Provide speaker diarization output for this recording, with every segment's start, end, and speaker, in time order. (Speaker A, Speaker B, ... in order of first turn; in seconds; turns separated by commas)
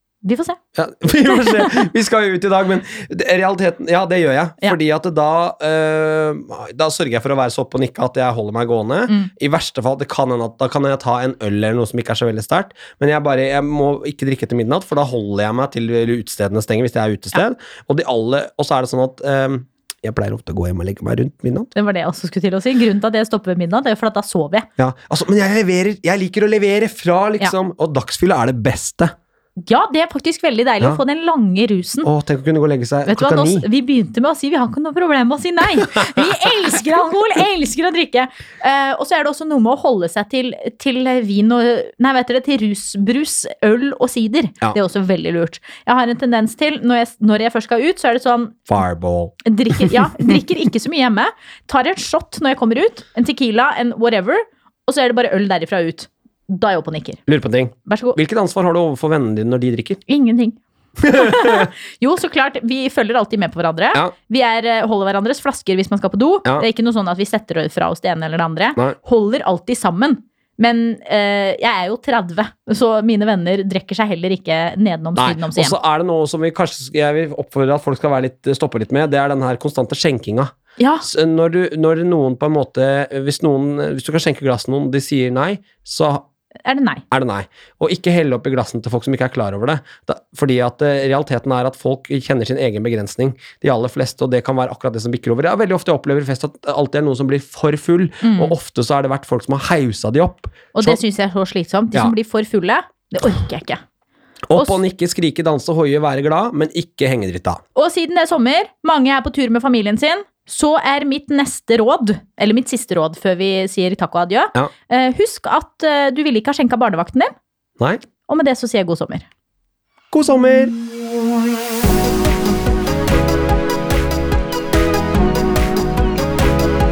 Speaker A: 0.2-0.6, Speaker B: 0.8-21.7, Speaker A: 21.7-24.7, Speaker B: 24.8-29.1, Speaker A: 29.6-32.1, Speaker B: 32.0-33.7, Speaker A: 33.1-48.7, Speaker B: 48.7-49.4, Speaker A: 49.4-57.2, Speaker B: 57.3-60.0, Speaker A: 57.9-58.2, Speaker A: 60.1-75.8, Speaker B: 61.0-61.7, Speaker B: 75.2-80.5, Speaker A: 80.8-81.1, Speaker B: 81.0-86.2, Speaker A: 86.7-87.0, Speaker B: 87.1-101.0, Speaker A: 98.2-98.6, Speaker A: 100.7-103.8, Speaker B: 104.5-107.6, Speaker A: 107.8-117.3, Speaker A: 118.3-119.3, Speaker B: 120.1-120.8